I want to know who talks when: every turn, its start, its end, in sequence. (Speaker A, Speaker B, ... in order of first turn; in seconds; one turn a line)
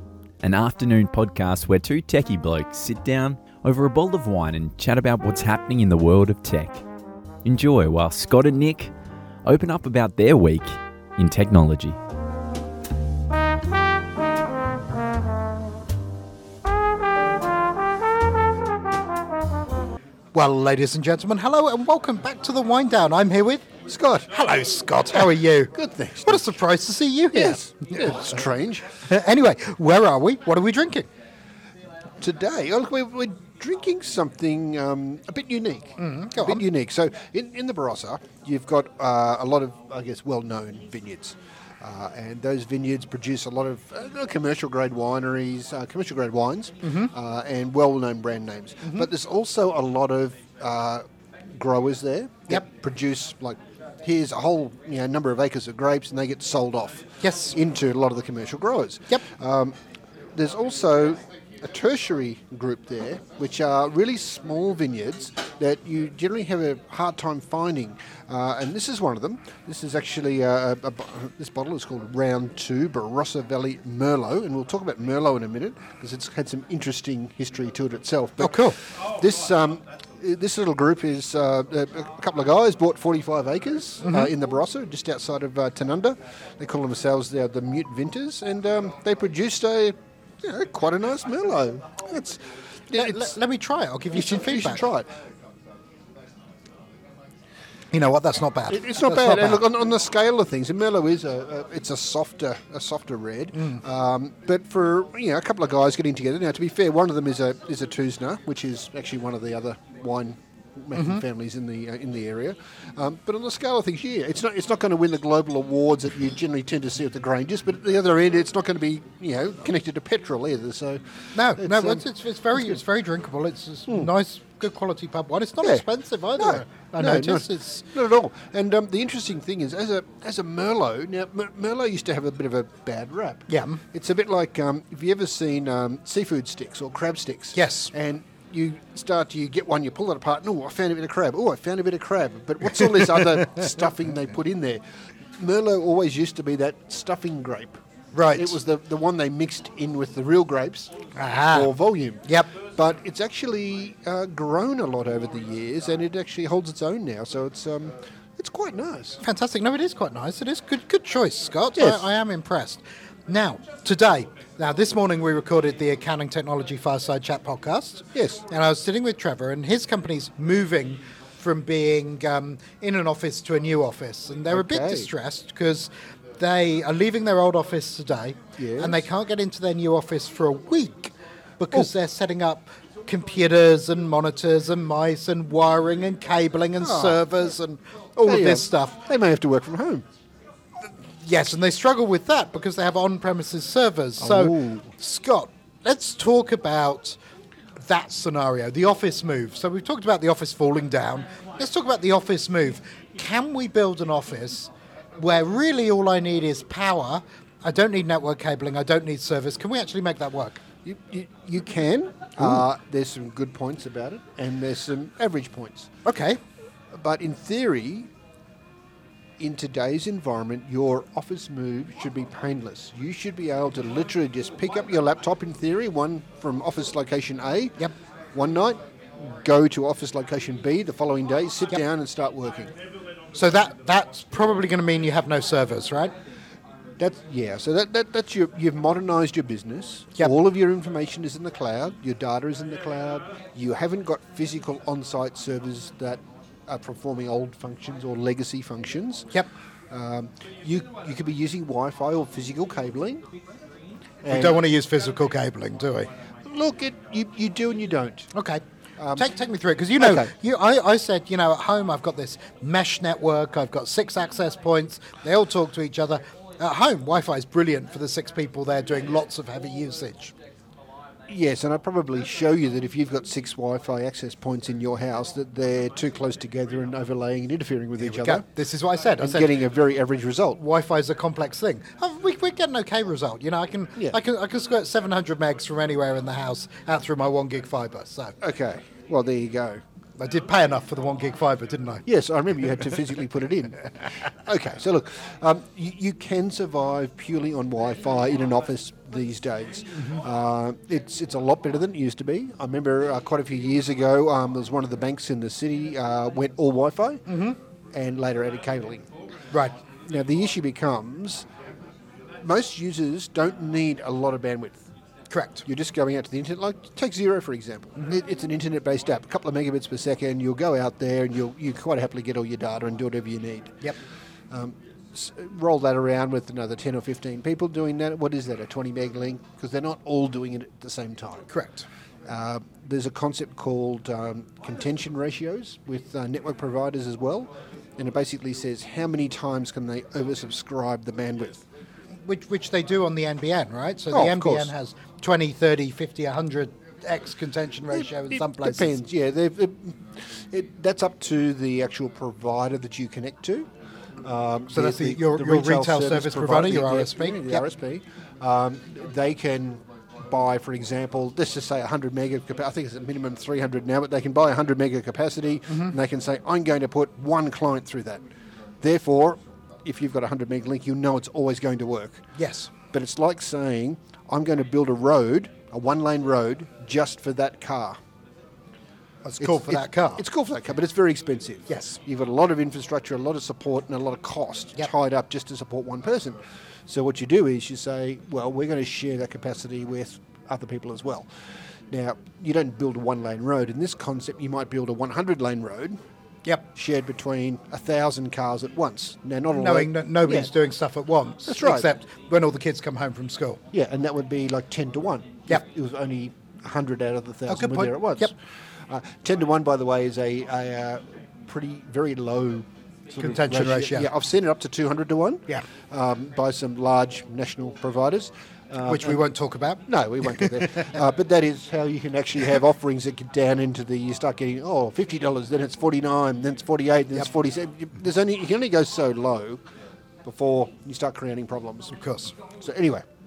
Speaker A: 0.4-6.8
Speaker A: 7.4-8.9
Speaker A: 9.4-12.0
Speaker B: 20.3-23.7
Speaker C: 23.9-24.3
Speaker B: 24.3-28.4
Speaker C: 25.1-26.5
Speaker C: 27.3-28.9
Speaker B: 28.9-31.1
Speaker C: 32.2-59.8
Speaker B: 36.0-36.6
Speaker B: 46.8-47.1
Speaker B: 57.2-57.6
Speaker C: 60.3-93.4
Speaker B: 78.4-78.8
Speaker B: 84.0-84.3
Speaker B: 92.9-94.8
Speaker C: 94.1-95.1
Speaker B: 97.9-99.6
Speaker C: 98.7-122.8
Speaker B: 111.0-111.2
Speaker B: 121.3-127.8
Speaker C: 125.6-125.8
Speaker C: 126.4-144.8
Speaker B: 133.5-133.8
Speaker B: 137.6-137.9
Speaker C: 145.3-147.8
Speaker B: 148.1-148.6
Speaker C: 148.3-150.9
Speaker B: 151.1-152.5
Speaker C: 151.5-159.2
Speaker B: 159.2-189.0
Speaker C: 161.8-162.1
Speaker C: 168.1-168.4
Speaker C: 174.5-175.1
Speaker C: 178.6-179.1
Speaker C: 186.8-187.2
Speaker C: 188.2-190.0
Speaker B: 191.2-197.2
Speaker C: 194.2-194.9
Speaker B: 197.8-210.6
Speaker C: 210.8-215.9
Speaker B: 216.0-216.4
Speaker C: 216.9-218.1
Speaker C: 219.4-227.8
Speaker C: 228.3-232.7
Speaker B: 233.3-236.1
Speaker C: 237.0-249.3
Speaker C: 249.9-253.2
Speaker C: 254.2-254.6
Speaker B: 254.3-256.1
Speaker C: 256.4-258.3
Speaker B: 258.3-258.6
Speaker C: 259.0-259.2
Speaker B: 259.1-270.3
Speaker C: 260.0-260.3
Speaker C: 271.3-278.4
Speaker B: 278.0-279.5
Speaker C: 279.2-280.6
Speaker B: 280.6-288.4
Speaker C: 288.4-289.8
Speaker B: 290.2-292.0
Speaker C: 292.1-307.2
Speaker B: 307.3-307.6
Speaker C: 307.9-309.1
Speaker C: 310.1-311.4
Speaker C: 312.4-314.9
Speaker B: 315.3-315.6
Speaker C: 315.6-323.7
Speaker C: 324.5-331.5
Speaker B: 331.5-331.9
Speaker C: 332.2-341.6
Speaker B: 342.2-348.9
Speaker C: 344.1-344.7
Speaker C: 347.9-353.7
Speaker C: 354.2-368.2
Speaker B: 354.7-357.6
Speaker B: 365.7-365.9
Speaker C: 368.8-372.2
Speaker B: 372.3-372.7
Speaker C: 372.9-378.0
Speaker B: 379.2-380.2
Speaker C: 379.4-391.3
Speaker B: 381.7-382.0
Speaker C: 391.9-396.0
Speaker C: 396.7-400.5
Speaker B: 399.5-403.6
Speaker C: 401.4-401.9
Speaker C: 403.7-408.3
Speaker B: 407.5-408.3
Speaker C: 408.9-419.2
Speaker B: 413.2-414.1
Speaker B: 418.8-420.7
Speaker C: 419.9-429.6
Speaker C: 430.2-431.9
Speaker B: 431.9-432.3
Speaker C: 432.6-433.1